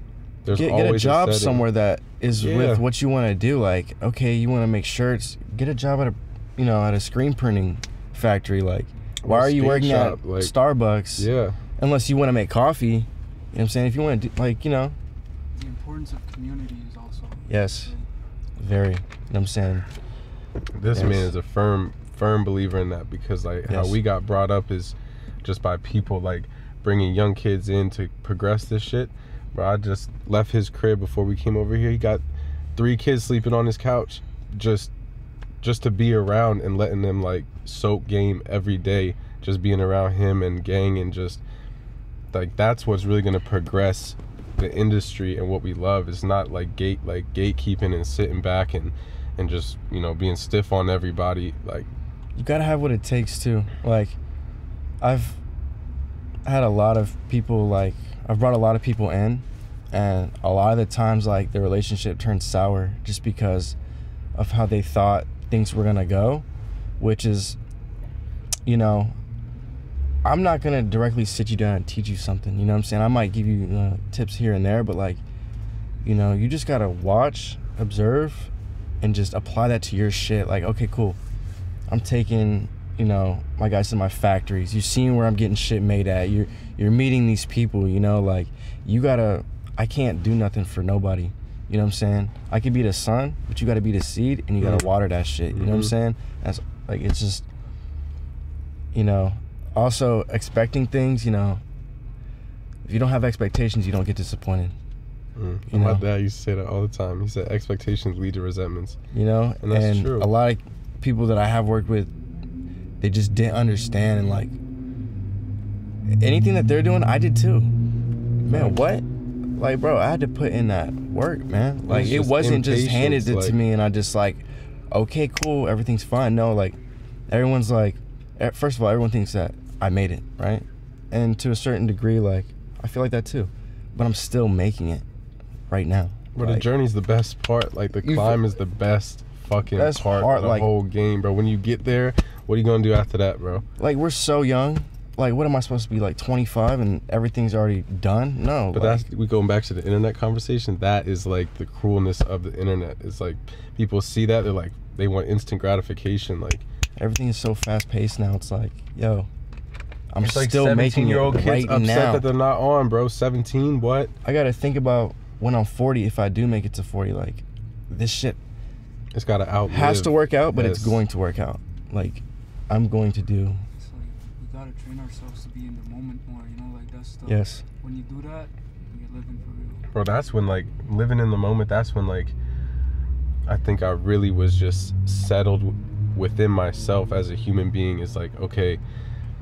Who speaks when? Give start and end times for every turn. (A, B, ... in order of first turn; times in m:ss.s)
0:00.4-0:01.6 A
0:00.5-0:15.0 B
0:02.4-0:02.8 A
0:09.2-0:10.5 A
0:11.2-0:11.6 A
0:15.5-0:18.0 C
0:17.5-0:17.9 B
0:18.6-0:19.8 B
0:20.7-0:32.2 A
0:20.9-0:21.3 B
0:23.6-0:24.0 B
0:32.7-0:34.9 A
0:35.6-0:41.4 A
0:42.3-0:51.9 A
0:52.4-0:54.2 B
0:55.0-0:55.4 B
0:56.4-1:03.8 B
1:04.3-1:06.4 B
1:07.0-1:07.6 B
1:08.6-1:09.2 B
1:10.2-1:15.2 B
1:16.0-1:21.2 B
1:21.9-1:37.5 B
1:34.6-1:34.8 A
1:35.5-1:35.9 A
1:38.9-1:41.6 B
1:42.8-1:44.7 B
1:45.4-1:49.0 A
1:45.7-1:46.0 B
1:49.1-1:52.1 B
1:49.6-1:50.3 A
1:53.0-1:54.6 B
1:56.2-1:57.7 B
1:58.4-1:59.0 B
1:58.5-1:58.8 A
1:59.6-2:15.0 B
2:01.9-2:03.6 A
2:15.7-2:16.7 B
2:16.4-2:23.6 A
2:18.0-2:18.4 B
2:19.7-2:20.7 B
2:23.8-2:29.0 B
2:28.7-2:36.6 A
2:37.0-2:39.3 B
2:40.1-2:42.3 B
2:40.2-2:44.1 A
2:44.2-2:48.4 B
2:49.1-2:51.0 A
2:49.7-2:53.6 B
2:53.8-2:59.8 C
2:57.2-2:57.6 B
2:59.9-3:02.3 A
3:03.5-3:08.8 A